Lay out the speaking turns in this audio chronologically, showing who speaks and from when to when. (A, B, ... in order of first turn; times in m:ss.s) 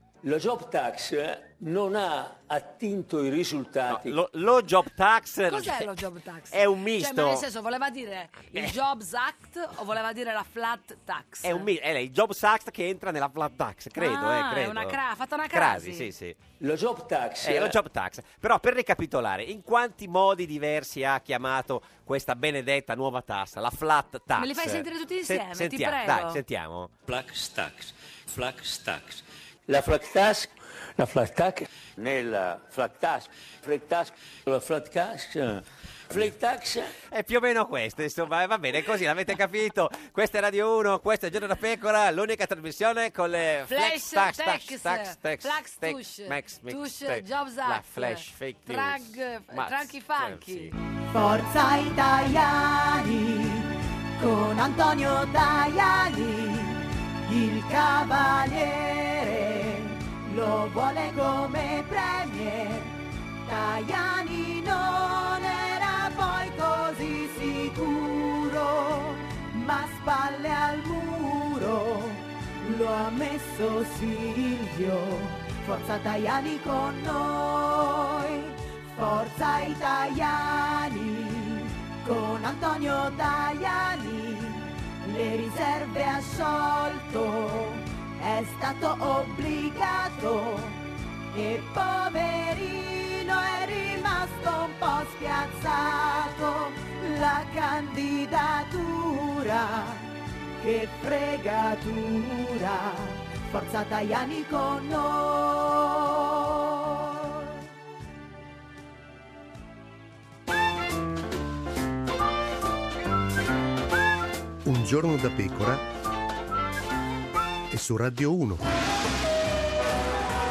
0:00.2-0:04.2 A
0:03.9-0:06.0 B
0:05.5-0:11.7 C
0:06.5-0:07.5 B
0:08.5-0:08.8 B
0:11.4-0:15.0 B
0:14.0-0:16.1 C
0:15.5-0:16.4 B
0:16.6-0:17.8 A
0:17.4-0:26.9 B
0:24.4-0:26.4 C
0:27.1-0:36.9 A
0:37.1-0:50.8 B
0:43.7-0:50.7 C
0:51.1-1:47.5 D
1:54.6-1:55.8 E
1:57.7-1:58.6 E